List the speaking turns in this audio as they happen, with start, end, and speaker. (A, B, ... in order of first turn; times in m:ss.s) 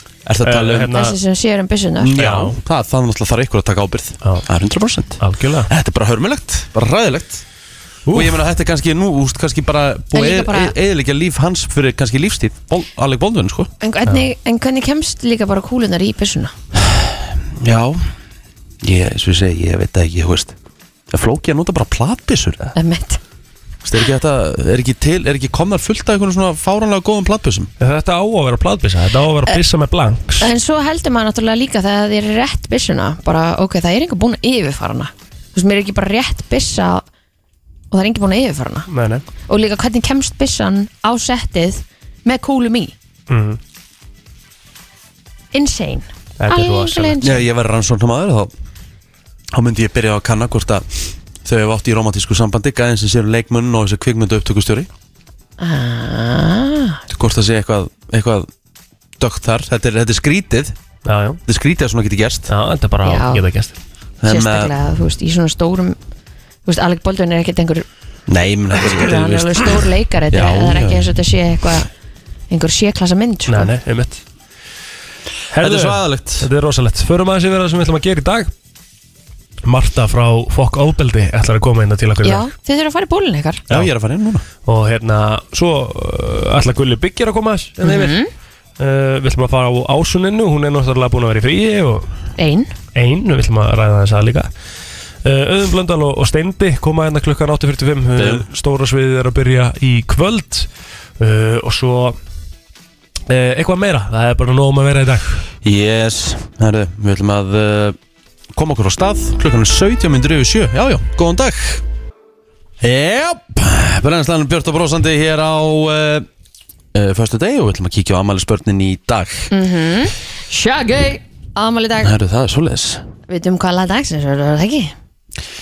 0:00.2-0:01.0 A
0:00.4-0:01.2 B
0:00.9-0:02.2 C
0:02.0-0:07.4 A
0:02.2-0:02.6 B
0:05.2-0:05.7 B
0:08.0-0:08.4 B
0:08.1-0:13.7 A
0:10.1-0:10.7 C
0:13.8-0:16.5 C
0:16.7-0:18.1 A
0:18.8-0:20.5 A
0:21.1-0:22.7 A
0:22.7-0:23.2 C
0:23.8-0:27.7 A
0:27.8-0:30.5 B
0:30.4-0:37.0 C
0:37.9-0:38.9 C
0:38.9-0:39.2 B
0:39.5-0:42.9 C
0:43.3-0:43.6 B
0:45.5-0:47.4 C
0:46.4-0:47.2 B
0:47.2-0:48.5 A
0:49.5-0:54.9 A
0:55.6-0:57.0 C
0:57.1-0:58.5 A
0:59.2-1:00.8 A
1:01.0-1:01.4 B
1:01.4-1:02.5 A
1:02.5-1:03.8 B
1:03.0-1:03.4 C
1:04.2-1:04.7 A
1:04.3-1:06.0 C
1:06.6-1:07.8 C
1:08.3-1:11.1 A
1:08.8-1:11.9 C
1:12.5-1:13.7 C
1:13.5-1:14.2 B
1:15.5-1:18.5 B
1:15.6-1:16.5 A
1:19.6-1:22.5 B
1:22.2-1:23.6 C
1:23.7-1:24.4 A
1:24.6-1:28.2 B
1:27.8-1:28.3 C
1:28.8-1:32.1 B
1:32.4-1:32.7 C
1:32.9-1:34.5 B
1:35.2-1:40.7 B
1:38.2-1:38.5 A
1:41.2-1:42.2 B
1:43.3-1:45.4 B
1:45.6-1:48.0 A
1:48.5-1:51.8 A
1:52.8-1:56.3 A
1:56.9-1:59.5 A
1:59.5-2:02.1 C
2:02.0-2:03.0 A
2:03.3-2:04.9 C